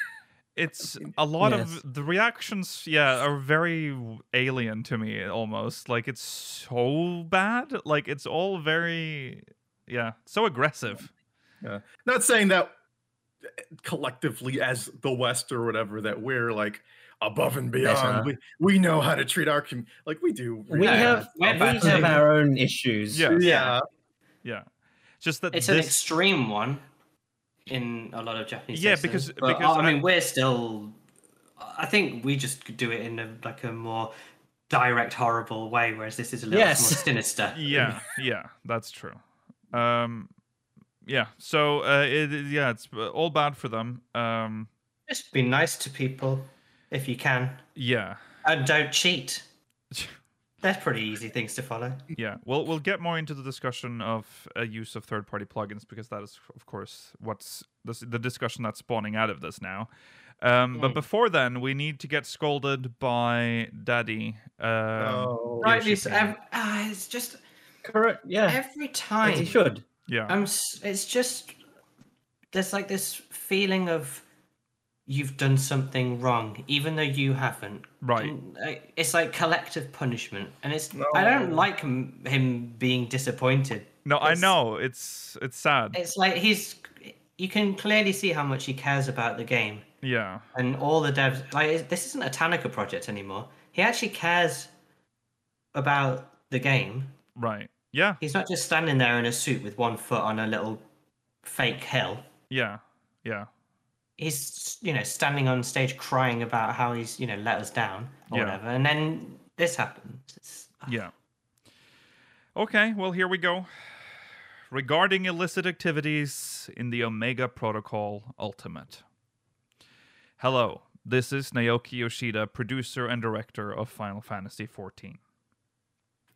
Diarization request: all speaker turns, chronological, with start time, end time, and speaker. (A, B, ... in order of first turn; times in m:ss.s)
0:00.6-0:11.1 A
0:01.4-0:01.8 B
0:11.6-0:12.7 C
0:13.8-0:22.2 C
0:17.8-0:18.3 B
0:20.7-0:23.4 B
0:20.8-0:22.2 D
0:23.1-0:23.5 A
0:23.2-0:23.8 C
0:23.4-0:23.8 D
0:25.2-0:26.0 A
0:25.5-0:26.8 D
0:27.7-0:31.0 D
0:28.7-0:30.0 A
0:31.6-0:34.1 D
0:34.7-0:37.6 D
0:36.5-0:37.1 B
0:37.5-0:39.2 A
0:39.7-0:40.3 A
0:41.0-0:44.7 A
0:45.1-0:47.6 D
0:47.8-0:48.2 A
0:48.4-0:49.4 D
0:50.6-0:52.1 D
0:52.1-0:59.9 A
1:00.4-1:06.3 A
1:00.7-1:01.0 D
1:05.0-1:05.8 C
1:05.6-1:07.4 D
1:07.8-1:08.6 B
1:08.5-1:09.6 D
1:09.2-1:09.8 B
1:10.1-1:10.4 A
1:10.3-1:11.6 D
1:12.5-1:14.2 D
1:15.1-1:24.5 D
1:18.0-1:18.3 A
1:20.9-1:21.7 C
1:24.0-1:26.0 A
1:25.9-1:29.8 D
1:30.0-1:30.4 A
1:30.5-1:34.7 D
1:35.7-1:37.2 D
1:37.4-1:38.2 A
1:38.2-1:40.8 D
1:41.4-1:42.3 D
1:42.5-1:43.5 A
1:44.2-1:51.0 D
1:48.3-1:48.6 A
1:50.8-1:51.1 A
1:52.6-1:53.7 A
1:54.7-1:59.0 A
2:00.4-2:05.2 A